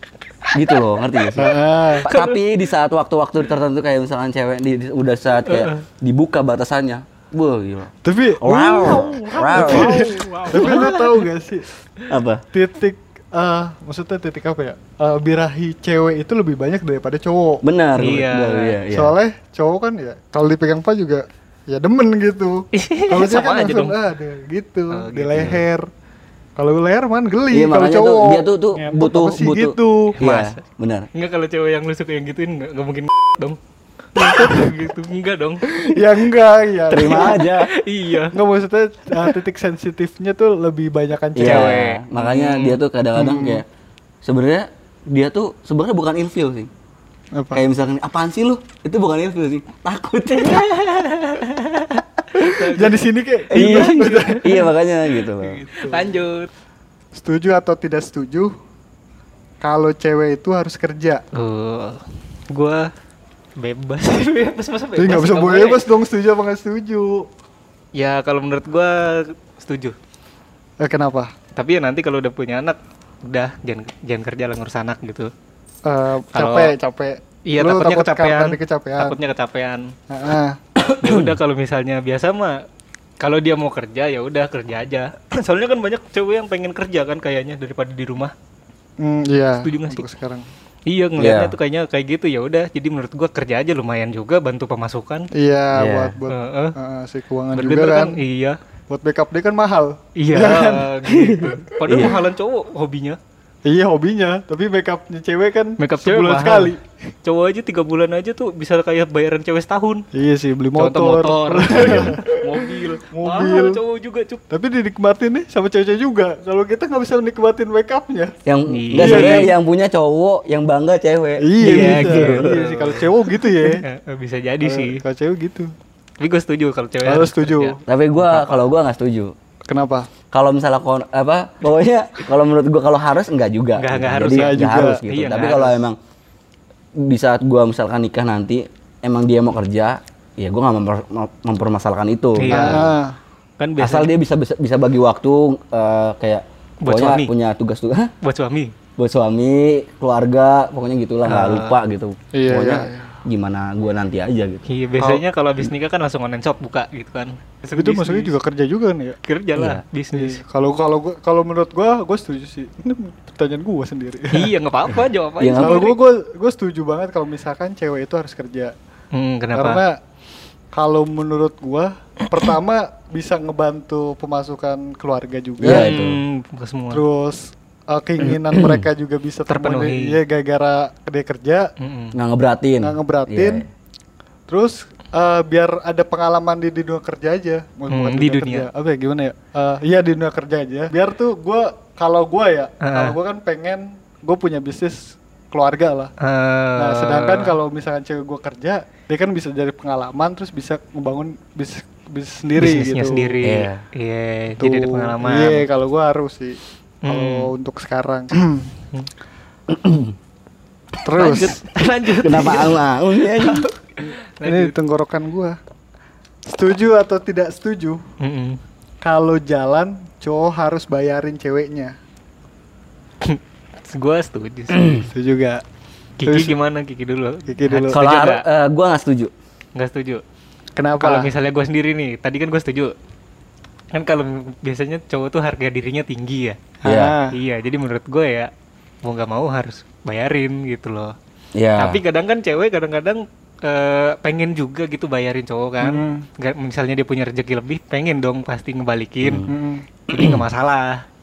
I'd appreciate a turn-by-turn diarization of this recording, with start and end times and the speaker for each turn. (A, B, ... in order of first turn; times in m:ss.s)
0:00.5-0:10.1 A
0:01.4-0:02.1 B
0:02.0-0:02.4 C
0:05.4-0:05.8 C
0:08.0-0:11.7 B
0:08.6-0:11.2 C
0:12.1-0:12.4 A
0:12.5-0:17.6 B
0:17.6-0:19.2 A
0:18.0-0:18.8 C
0:18.9-0:25.8 B
0:22.7-0:24.0 C
0:24.9-0:25.6 C
0:26.6-0:30.2 B
0:27.5-0:31.1 A
0:30.2-0:30.6 C
0:31.1-0:33.6 C
0:34.1-0:35.6 C
0:34.2-0:34.7 B
0:35.7-0:37.4 B
0:36.9-0:37.7 A
0:37.0-0:38.4 C
0:38.3-0:41.8 B
0:41.3-0:43.6 A
0:41.4-0:42.8 C
0:43.1-0:43.6 B
0:44.2-0:46.7 A
0:47.3-0:47.6 B
0:47.5-0:50.7 A
0:50.4-0:54.6 C
0:52.4-0:54.7 B
0:53.5-0:55.6 A
0:55.2-0:56.5 C
0:55.7-0:56.1 B
0:57.1-0:58.5 B
0:59.6-1:01.2 B
1:01.3-1:02.9 C
1:03.6-1:05.8 C
1:05.0-1:07.3 B
1:07.9-1:10.0 C
1:10.8-1:11.3 B
1:11.5-1:15.3 C
1:15.8-1:19.2 B
1:16.3-1:16.7 C
1:17.4-1:19.9 C
1:20.1-1:20.6 B
1:20.8-1:21.3 A
1:21.0-1:22.6 C
1:23.2-1:28.3 C
1:29.0-1:30.4 B
1:29.6-1:30.0 C
1:30.9-1:35.3 C
1:31.2-1:31.5 A
1:35.3-1:38.2 B
1:35.7-1:36.2 A
1:36.3-1:36.8 C
1:37.5-1:38.6 C
1:38.9-1:41.0 B
1:40.2-1:43.2 C
1:41.2-1:42.2 A
1:43.6-1:46.8 B
1:45.8-1:50.0 C
1:50.1-1:53.8 B
1:50.8-1:54.4 C
1:51.7-1:52.1 A
1:54.5-1:58.3 B
1:58.4-2:02.7 A
1:58.7-1:59.5 C
1:59.0-1:59.5 B
2:01.4-2:03.8 B
2:01.6-2:05.0 C
2:04.6-2:05.7 B
2:06.2-2:08.6 C
2:07.0-2:07.8 B
2:07.8-2:09.3 A
2:09.7-2:10.1 B
2:10.3-2:16.0 A
2:13.8-2:15.8 C
2:14.3-2:15.0 B
2:17.0-2:22.9 A
2:22.4-2:22.9 C
2:22.5-2:23.2 B
2:23.6-2:24.1 C
2:23.8-2:28.1 A
2:26.8-2:27.3 C
2:28.2-2:28.7 C
2:29.0-2:34.6 A
2:31.2-2:31.8 C
2:32.3-2:33.1 B
2:34.7-2:38.4 C
2:37.8-2:39.2 B
2:39.2-2:40.4 C
2:39.6-2:39.8 A
2:40.1-2:44.5 B
2:44.3-2:46.0 C
2:45.4-2:45.8 A
2:45.6-2:48.7 B
2:49.1-2:49.8 C
2:49.5-2:50.0 B
2:50.7-2:55.9 B
2:55.6-2:56.2 A
2:55.6-2:57.0 C
2:56.9-3:01.7 B
2:58.3-2:58.8 A
2:59.5-3:00.2 C
3:01.8-3:02.2 C
3:02.1-3:03.7 A
3:02.8-3:03.6 B
3:04.5-3:16.1 B
3:07.9-3:08.7 C
3:12.8-3:13.2 C
3:16.2-3:17.6 C
3:16.8-3:23.4 B
3:22.6-3:25.6 C
3:23.4-3:23.8 A
3:24.6-3:28.7 B
3:27.0-3:27.5 C
3:29.7-3:30.1 A
3:31.0-3:31.6 B
3:31.2-3:34.7 C
3:32.2-3:33.6 A
3:34.4-3:35.6 B
3:36.5-3:38.0 B
3:38.2-3:38.6 C
3:39.0-3:41.9 B
3:43.2-3:45.1 C
3:44.7-3:45.0 A
3:45.0-3:45.6 B
3:46.2-3:48.4 C
3:46.2-3:46.6 B
3:47.5-3:48.0 B
3:47.9-3:49.3 A
3:49.8-3:50.2 C
3:50.8-3:51.3 B
3:51.0-3:52.9 C
3:53.9-3:56.6 C
3:56.8-3:57.3 B
3:56.8-3:57.2 A
3:57.3-3:58.5 C
3:59.0-4:01.1 C
4:01.5-4:02.0 A
4:01.8-4:09.5 C
4:05.8-4:06.3 B
4:09.2-4:09.5 A
4:09.5-4:09.8 B
4:10.1-4:11.0 C
4:10.1-4:10.4 A